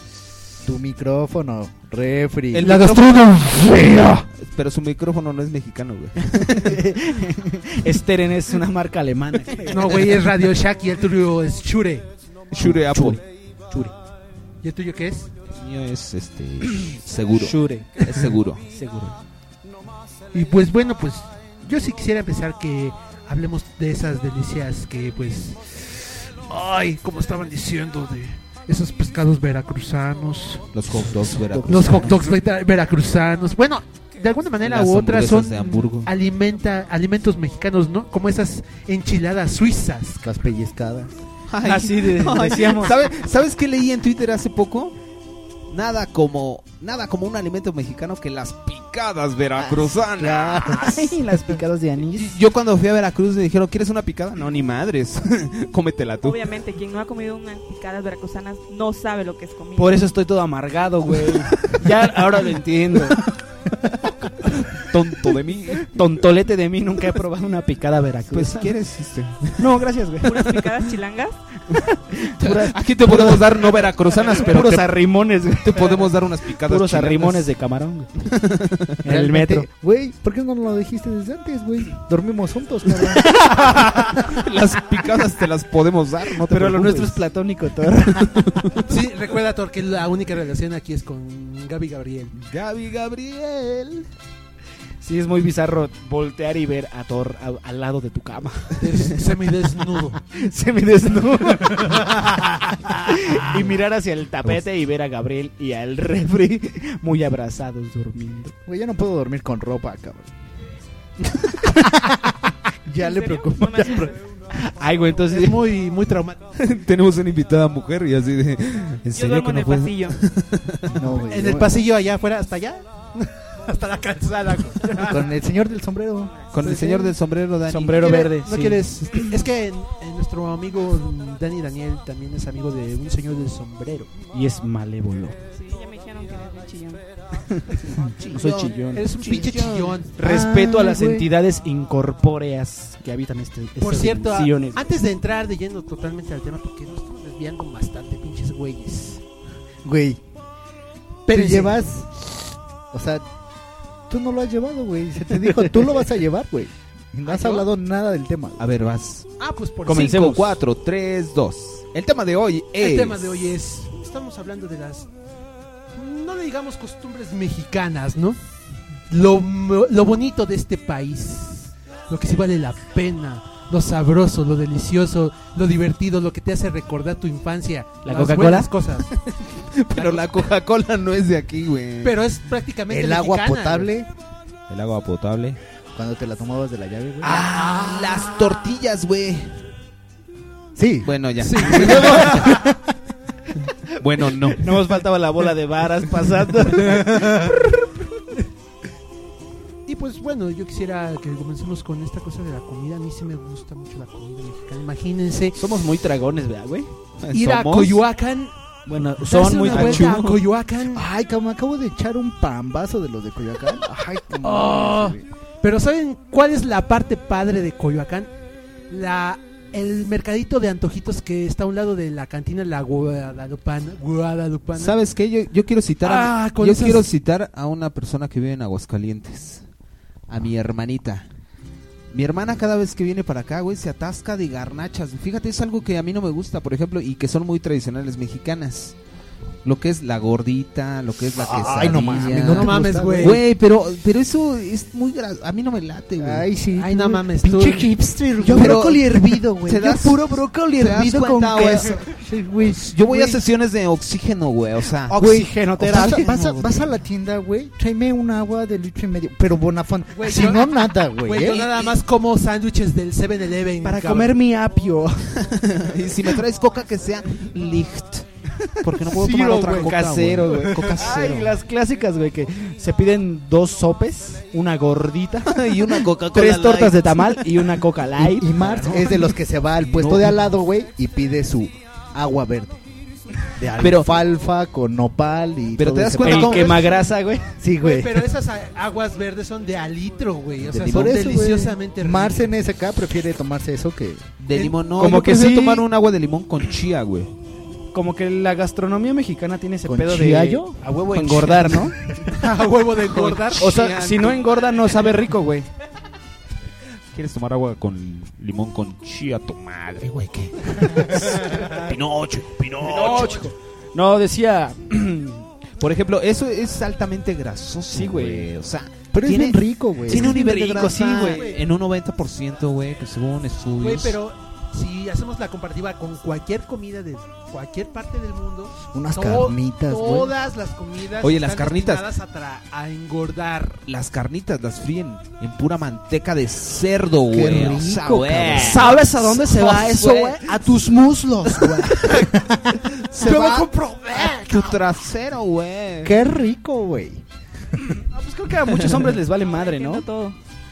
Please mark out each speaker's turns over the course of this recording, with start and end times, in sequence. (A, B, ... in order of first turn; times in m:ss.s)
0:00.6-0:02.8 A
0:02.5-0:06.8 B
0:02.6-0:02.9 C
0:06.4-0:10.3 D
0:09.7-0:12.1 C
0:12.5-0:13.2 B
0:12.6-0:13.9 D
0:14.6-0:15.3 C
0:15.5-0:18.6 B
0:17.4-0:19.2 D
0:20.3-0:30.7 C
0:30.7-0:32.2 B
0:31.0-0:32.2 D
0:31.6-0:40.2 C
0:34.6-0:36.1 B
0:40.2-0:41.1 A
0:41.5-0:45.0 B
0:41.6-0:43.0 D
0:45.7-0:51.1 B
0:49.6-0:50.9 A
0:50.7-0:52.4 D
0:52.1-0:56.4 B
0:56.2-1:00.0 E
0:59.8-1:03.2 D
1:04.8-1:05.9 B
1:05.8-1:08.7 D
1:08.3-1:09.7 B
1:09.6-1:10.7 D
1:10.2-1:11.4 E
1:12.1-1:16.1 D
1:12.4-1:14.9 B
1:15.6-1:17.5 B
1:16.6-1:18.1 D
1:18.4-1:18.9 B
1:19.0-1:19.7 D
1:19.1-1:23.6 A
1:24.2-1:27.2 B
1:26.5-1:28.5 D
1:28.2-1:28.8 B
1:28.9-1:32.3 C
1:32.3-1:34.1 B
1:35.0-1:38.8 D
1:38.8-1:40.2 C
1:40.3-1:48.5 D
1:48.6-1:50.3 A
1:51.6-1:52.3 A
1:52.9-1:54.1 A
1:53.0-1:54.2 E
1:54.6-1:55.6 D
1:55.3-1:56.4 C
1:56.6-2:01.0 B
1:59.1-2:00.2 E
2:00.9-2:01.7 A
2:01.3-2:05.3 C
2:05.0-2:06.3 A
2:06.5-2:08.0 B
2:06.6-2:07.1 C
2:07.7-2:09.2 D
2:08.0-2:14.1 C
2:14.3-2:15.4 D
2:15.5-2:17.0 E
2:18.0-2:19.9 B
2:18.3-2:19.4 D
2:18.9-2:20.1 C
2:20.2-2:24.8 D
2:20.2-2:21.3 A
2:23.8-2:29.2 C
2:29.8-2:30.2 A
2:31.3-2:31.8 C
2:31.3-2:32.3 A
2:32.9-2:33.2 A
2:34.1-2:38.6 A
2:37.2-2:37.6 C
2:38.6-2:39.3 B
2:39.4-2:40.3 C
2:39.8-2:40.6 D
2:39.9-2:43.5 B
2:42.8-2:45.1 C
2:45.9-2:48.4 C
2:49.1-2:59.1 C
2:58.0-2:58.7 D
2:59.5-3:02.2 B
3:00.0-3:00.3 C
3:02.0-3:03.9 C
3:02.9-3:04.1 A
3:04.7-3:05.6 B
3:05.9-3:07.4 A
3:07.2-3:08.2 D
3:07.4-3:08.2 C
3:07.7-3:09.6 B
3:10.8-3:12.8 A
3:11.0-3:12.5 B
3:11.4-3:12.4 C
3:14.0-3:14.7 B
3:14.5-3:17.5 D
3:19.8-3:25.6 C
3:25.5-3:26.9 D
3:27.2-3:28.0 B
3:27.3-3:28.5 C
3:28.9-3:30.2 D
3:29.2-3:31.0 C
3:29.7-3:30.4 B
3:30.9-3:35.2 A
3:34.4-3:38.3 C
3:38.9-3:45.0 C
3:44.8-3:49.6 B
3:46.0-3:47.1 C
3:50.3-3:51.3 B
3:52.1-3:59.0 B
3:59.6-4:06.5 B
4:01.4-4:03.4 A
4:01.7-4:03.4 C
4:06.2-4:09.1 A
4:06.8-4:07.9 C
4:07.4-4:12.0 D
4:08.4-4:12.0 B
4:12.0-4:13.3 A
4:12.7-4:15.2 B
4:15.1-4:16.9 D
4:15.1-4:21.7 A
4:20.1-4:24.4 C
4:23.8-4:25.3 D
4:25.4-4:28.3 B
4:28.8-4:31.5 B
4:29.0-4:35.6 D
4:29.6-4:29.9 C
4:35.5-4:37.6 B
4:36.2-4:39.2 D
4:38.2-4:42.8 A
4:39.8-4:40.3 D
4:43.6-4:46.8 A
4:43.8-4:44.1 B
4:45.8-4:46.9 B
4:46.2-4:47.5 D
4:47.6-4:48.2 A
4:47.8-4:52.4 C
4:50.7-4:51.1 B
4:50.7-4:54.3 A
4:54.4-4:57.3 B
4:55.0-4:55.8 D
4:57.9-5:02.0 D
4:59.8-5:00.8 A
5:01.2-5:01.6 B
5:01.4-5:01.9 A
5:02.3-5:03.8 C
5:03.0-5:05.1 B
5:03.5-5:05.7 D
5:07.1-5:13.4 B
5:12.8-5:15.5 D
5:13.0-5:13.5 C
5:15.8-5:24.2 B
5:17.9-5:18.5 D
5:19.1-5:20.4 A
5:20.1-5:21.5 D
5:21.3-5:21.6 C
5:23.8-5:33.8 C
5:28.9-5:30.3 A
5:31.2-5:32.1 B
5:33.8-5:40.5 B
5:37.3-5:39.0 A
5:38.1-5:42.1 D
5:42.0-5:42.3 C
5:43.0-5:46.2 B
5:43.2-5:44.8 C
5:46.0-5:47.2 A
5:48.1-5:50.0 D
5:48.8-5:49.1 B
5:49.4-5:50.4 E